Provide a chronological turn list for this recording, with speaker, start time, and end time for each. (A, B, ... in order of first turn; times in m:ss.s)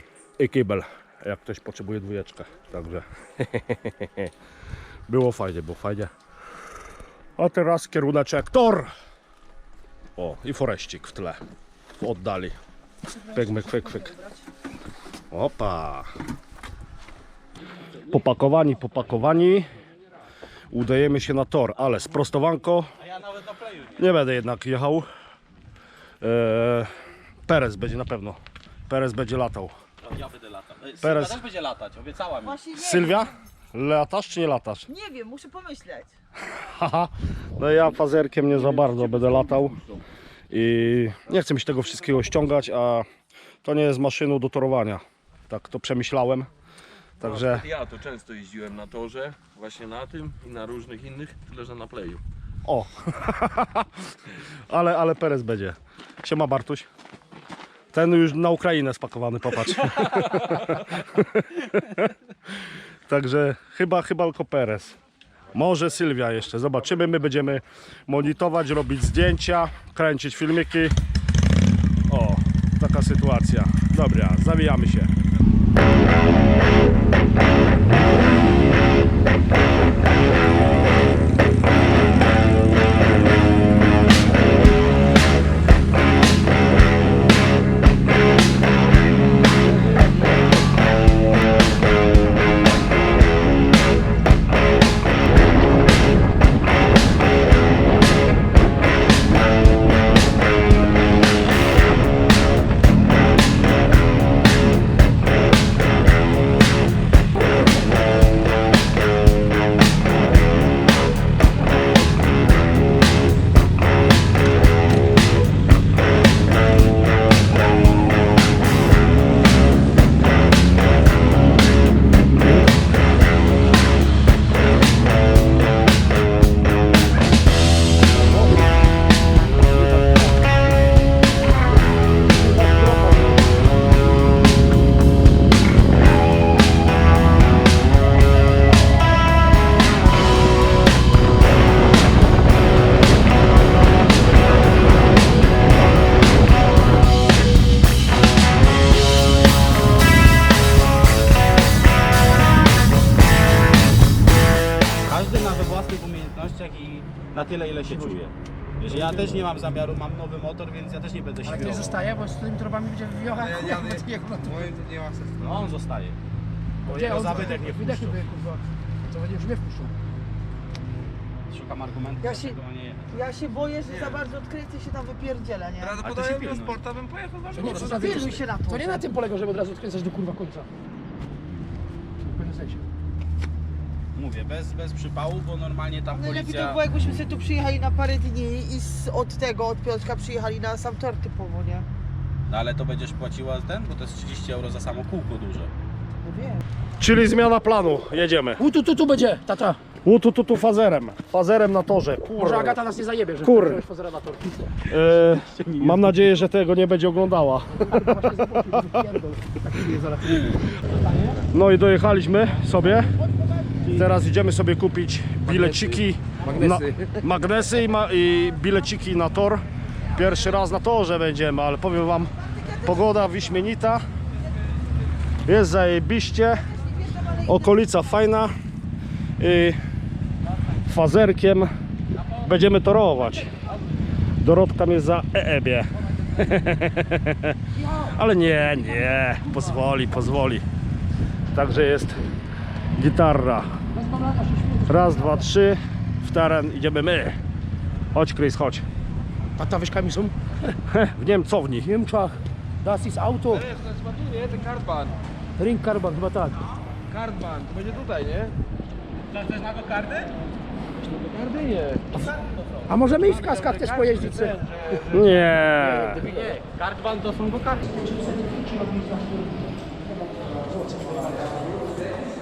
0:00.4-0:04.3 A
0:05.1-0:06.1 A
0:07.4-0:08.9 A
0:10.2-0:11.4 A
0:12.0-0:12.6 A
0:13.3-0:14.2 A
0:13.4-0:14.4 B
0:15.3-0:16.1 A
0:18.1-0:19.7 A
0:20.7-0:22.9 A
0:23.0-0:24.0 C
0:24.0-0:25.1 A
0:26.2-0:26.9 A
0:27.5-0:29.7 A
0:30.0-0:32.6 C
0:31.0-0:31.4 A
0:32.4-0:33.3 B
0:32.7-0:34.9 A
0:34.9-0:36.1 B
0:36.5-0:39.8 A
0:40.5-0:43.1 A
0:43.6-0:46.5 A
0:47.2-0:47.7 A
0:47.2-0:52.2 D
0:52.7-0:56.9 A
0:57.9-1:02.1 A
1:03.1-1:05.0 A
1:05.5-1:11.0 A
1:12.1-1:15.1 A
2:12.6-2:13.3 E
2:35.1-2:42.0 C
2:41.4-2:44.7 E
2:43.4-2:45.7 D
2:45.4-2:46.2 C
2:46.8-2:48.2 C
2:46.8-2:49.9 E
2:47.1-2:47.4 D
2:51.5-2:53.2 C
2:52.2-2:52.6 B
2:53.1-2:56.0 B
2:53.9-2:54.2 D
2:55.8-2:58.0 D
2:56.0-2:56.8 C
2:57.5-3:00.7 E
2:57.6-2:57.9 C
2:57.9-2:59.0 B
3:02.2-3:02.9 E
3:04.1-3:06.8 C
3:06.1-3:11.9 B
3:12.5-3:15.7 C
3:16.2-3:16.6 B
3:17.0-3:18.7 A
3:18.6-3:19.8 E
3:20.0-3:22.8 A
3:22.4-3:24.8 E
3:23.4-3:23.8 A
3:24.8-3:29.0 A
3:25.2-3:26.2 C
3:27.7-3:30.6 E
3:31.4-3:33.1 A
3:33.8-3:44.0 A
3:36.5-3:36.9 E
3:45.5-3:46.7 A
3:47.3-3:48.5 A
3:49.4-3:49.8 A
3:50.8-3:51.7 A
3:52.4-3:53.5 A
3:54.4-4:00.6 A
4:01.5-4:02.2 A
4:03.0-4:03.7 A
4:03.9-4:05.5 E
4:04.8-4:07.4 A
4:08.1-4:08.8 A
4:09.6-4:10.3 E
4:10.9-4:11.9 A
4:11.8-4:13.7 E
4:13.7-4:15.2 D
4:15.6-4:16.6 E
4:17.1-4:18.5 D
4:17.1-4:18.0 C
4:19.4-4:20.3 C
4:21.5-4:22.0 C
4:22.9-4:24.7 E
4:24.8-4:25.2 D
4:25.0-4:26.4 A
4:26.3-4:27.8 C
4:27.8-4:29.6 E
4:30.5-4:31.5 E